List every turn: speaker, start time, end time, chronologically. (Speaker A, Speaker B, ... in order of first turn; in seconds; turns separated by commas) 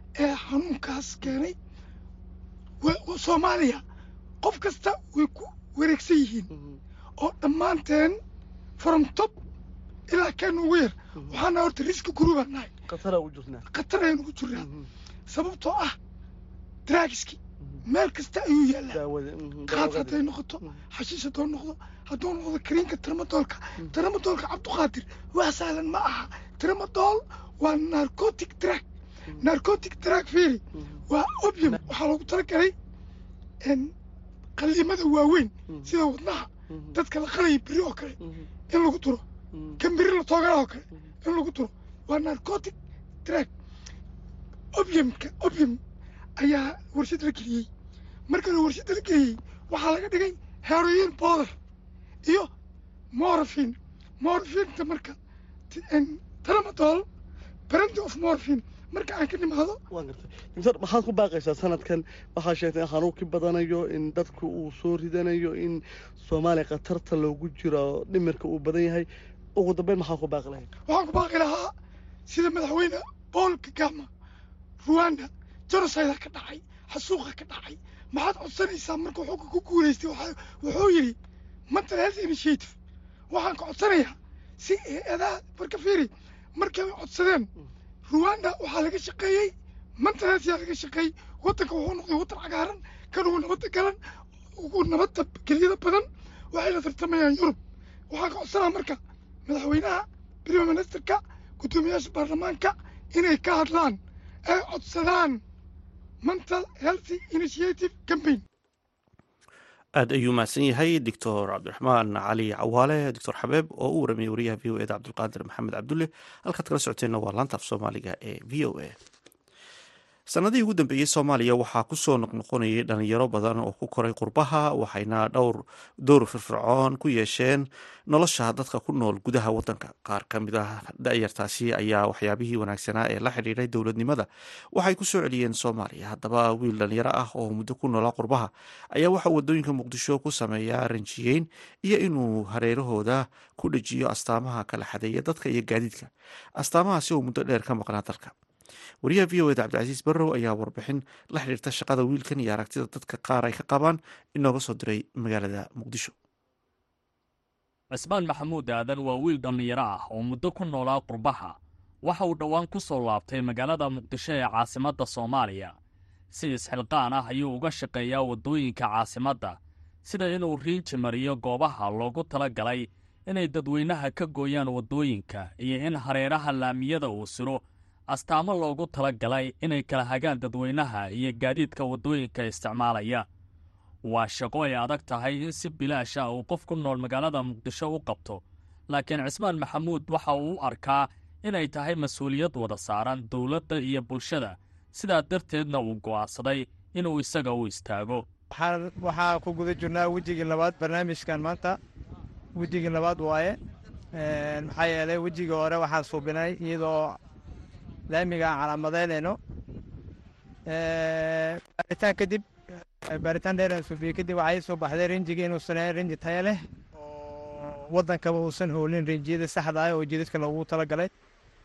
Speaker A: 0.2-1.6, Speaker A: 2.8-3.8, Speaker A: 4.4-6.5, Speaker B: 6.5-6.8, Speaker A: 7.2-8.2, Speaker A: 8.8-9.3, Speaker A: 10.1-12.7, Speaker B: 12.9-13.7, Speaker A: 13.7-14.7, Speaker B: 14.6-14.9, Speaker A: 15.3-16.0, Speaker A: 16.9-19.0, Speaker B: 18.9-20.8, Speaker A: 19.7-28.9, Speaker A: 29.4-32.7, Speaker B: 30.7-31.0, Speaker A: 33.6-33.9, Speaker A: 34.6-38.2, Speaker B: 35.7-36.0, Speaker B: 36.7-37.0, Speaker B: 38.2-38.5, Speaker A: 38.7-39.2, Speaker B: 39.5-39.8, Speaker A: 39.8-43.5, Speaker A: 44.7-45.8, Speaker A: 46.4-47.7, Speaker A: 48.3-51.5, Speaker A: 52.2-52.5, Speaker A: 53.1-55.2, Speaker A: 55.7-57.1, Speaker A: 57.7-59.8, Speaker B: 59.9-70.7, Speaker A: 70.9-71.7, Speaker A: 72.3-74.1, Speaker A: 74.8-81.2, Speaker A: 81.7-82.7, Speaker A: 83.3-87.5, Speaker A: 88.1-94.0, Speaker A: 94.6-97.6, Speaker A: 98.1-105.4, Speaker A: 106.2-108.4, Speaker C: 110.0-119.0, Speaker C: 120.3-148.3, Speaker C: 149.0-156.1, Speaker D: 157.9-165.7, Speaker D: 166.3-183.2, Speaker D: 184.1-198.2, Speaker E: 198.5-201.8, Speaker E: 202.6-203.6, Speaker E: 204.1-207.2, Speaker E: 208.1-209.4, Speaker E: 210.7-212.4, Speaker E: 213.1-221.1